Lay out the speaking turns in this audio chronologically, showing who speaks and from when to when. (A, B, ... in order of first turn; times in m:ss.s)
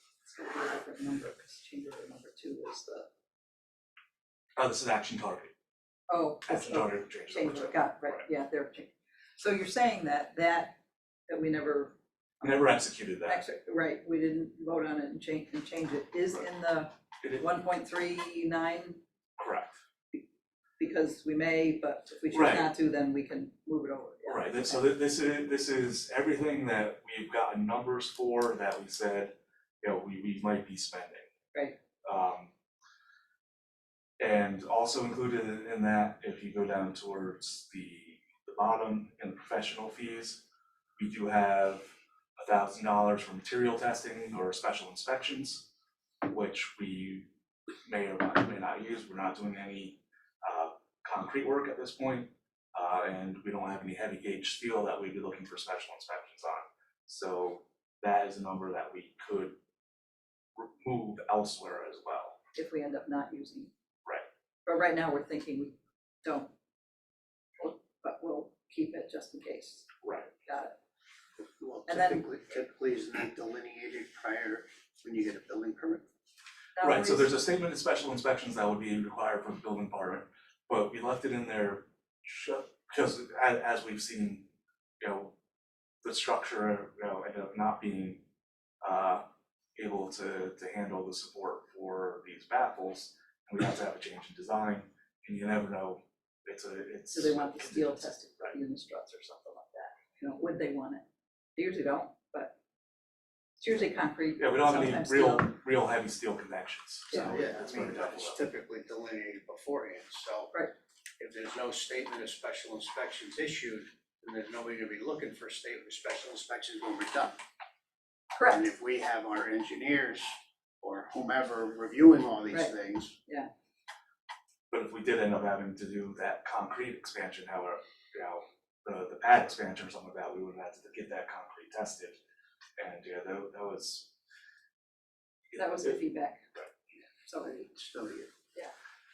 0:00.2-0:03.1 A
0:04.6-0:05.5 B
0:06.1-0:10.8 A
0:06.4-0:08.2 B
0:11.3-0:11.9 A
0:12.4-0:13.4 B
0:13.2-0:19.0 A
0:19.4-0:19.8 B
0:20.8-0:24.9 A
0:22.3-0:22.7 B
0:24.2-0:31.3 B
0:32.0-0:32.5 B
0:34.2-0:40.4 B
0:41.0-0:45.6 B
0:46.2-0:47.3 B
0:47.8-0:59.6 B
1:00.6-1:02.4 B
1:02.5-1:03.7 A
1:04.6-1:06.5 A
1:07.6-1:09.9 A
1:10.0-1:10.3 B
1:10.4-1:10.8 A
1:11.6-1:16.0 C
1:11.9-1:12.2 A
1:16.8-1:17.3 A
1:16.8-1:24.5 B
1:25.0-1:25.3 B
1:26.0-1:28.2 B
1:28.8-1:29.2 B
1:29.8-1:38.6 B
1:37.1-1:41.0 A
1:41.6-1:42.5 A
1:43.6-1:45.5 A
1:44.4-1:48.4 B
1:47.2-1:50.5 C
1:51.2-1:57.4 C
1:58.3-1:58.6 A
1:58.4-2:03.2 C
2:04.7-2:12.2 B
2:12.8-2:14.1 B
2:15.5-2:16.4 A
2:17.3-2:17.6 A
2:17.4-2:18.3 C